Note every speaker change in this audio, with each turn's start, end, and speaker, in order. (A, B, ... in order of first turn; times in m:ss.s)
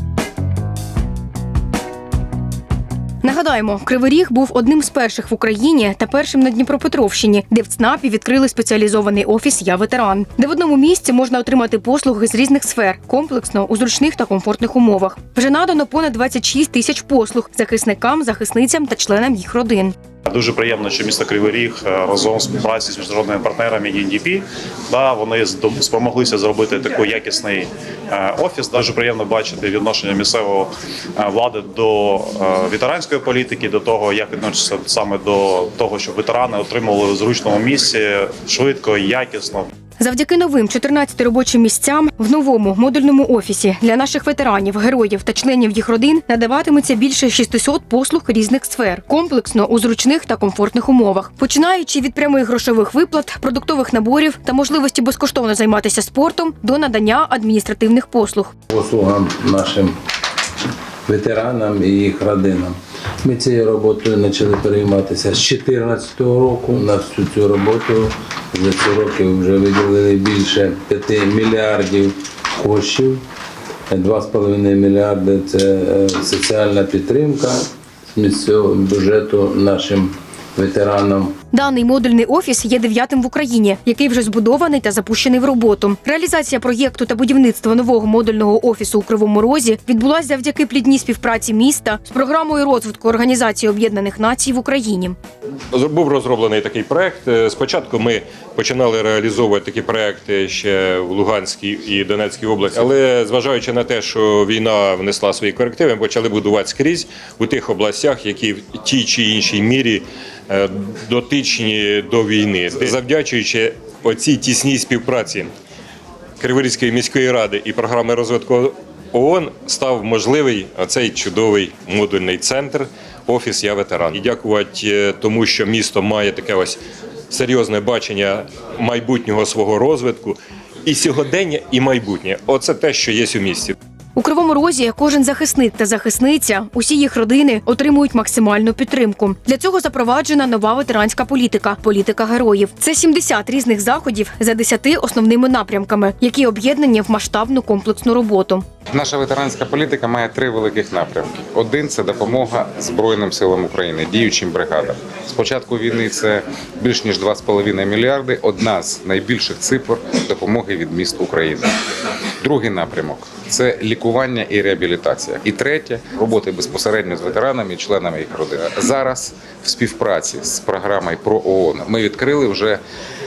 0:03.2-0:20.0 A
0:20.3-0:24.4 B
0:24.9-0:39.4 B
0:40.0-0:58.5 A
0:58.7-0:59.9 C
1:01.1-1:13.2 C
1:13.9-1:21.4 C
1:21.5-1:35.2 A
1:35.7-1:55.5 D
1:56.4-2:06.8 D
2:07.3-2:13.8 D
2:14.2-2:28.6 A
2:28.9-2:41.8 E
2:42.4-2:52.8 E